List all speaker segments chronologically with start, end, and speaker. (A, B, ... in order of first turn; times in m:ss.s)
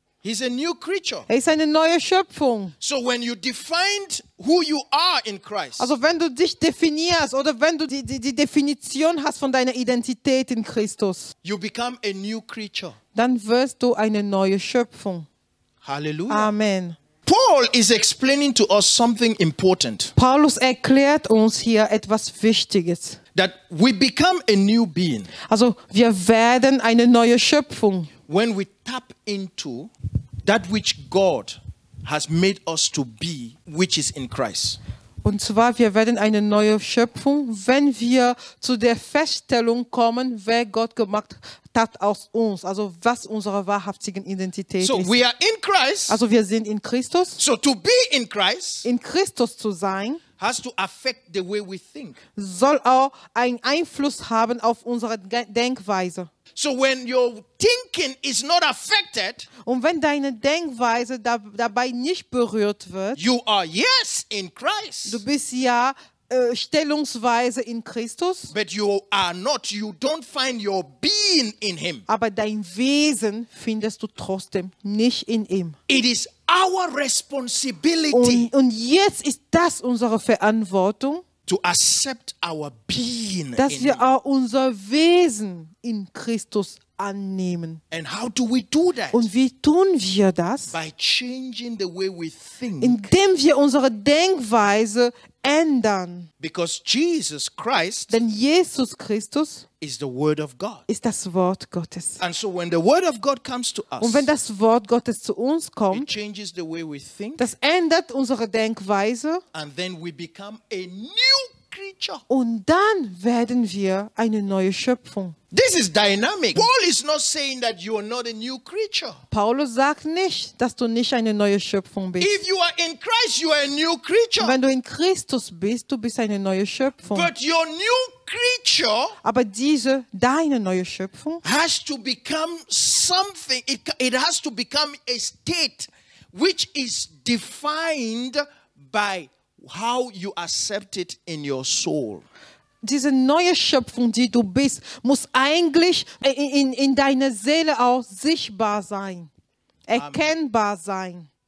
0:00.2-0:01.3 A
0:01.3-0:02.7 B
0:02.8-0:05.9 A
0:05.8-0:11.3 B
0:11.4-0:13.0 A
0:13.1-0:15.3 B
0:15.8-0:16.5 A
0:16.3-0:17.0 B
0:17.2-0:20.1 A
0:20.2-0:23.2 B
0:23.3-0:25.3 A
0:25.5-0:28.1 B
0:28.3-0:29.9 A
0:30.4-0:34.8 A
0:35.2-0:45.2 B
0:44.8-0:46.2 A
0:46.1-0:47.4 B
0:47.4-0:48.9 A
0:48.8-0:50.2 B
0:50.4-0:52.2 A
0:52.4-0:56.3 B
0:56.6-0:59.5 A
0:59.6-1:03.2 B
1:03.1-1:05.2 A
1:05.0-1:08.5 B
1:08.5-1:12.0 A
1:12.1-1:15.8 B
1:15.9-1:18.5 A
1:18.1-1:21.2 B
1:21.4-1:24.0 A
1:23.6-1:27.8 B
1:27.9-1:29.3 A
1:29.1-1:30.7 B
1:30.7-1:33.0 A
1:32.8-1:36.3 B
1:36.4-1:38.2 A
1:38.1-1:39.6 B
1:39.8-1:40.8 A
1:40.9-1:42.2 B
1:42.2-1:44.3 A
1:44.0-1:46.1 B
1:45.9-1:47.5 A
1:47.4-1:49.4 B
1:49.5-1:52.2 A
1:52.3-1:55.4 B
1:55.5-1:59.2 A
1:59.3-2:02.4 B
2:02.2-2:04.6 A
2:04.4-2:07.3 B
2:07.1-2:09.2 A
2:09.2-2:11.4 B
2:11.4-2:22.2 A
2:22.8-2:29.3 B
2:29.9-2:31.3 B
2:29.9-2:30.3 A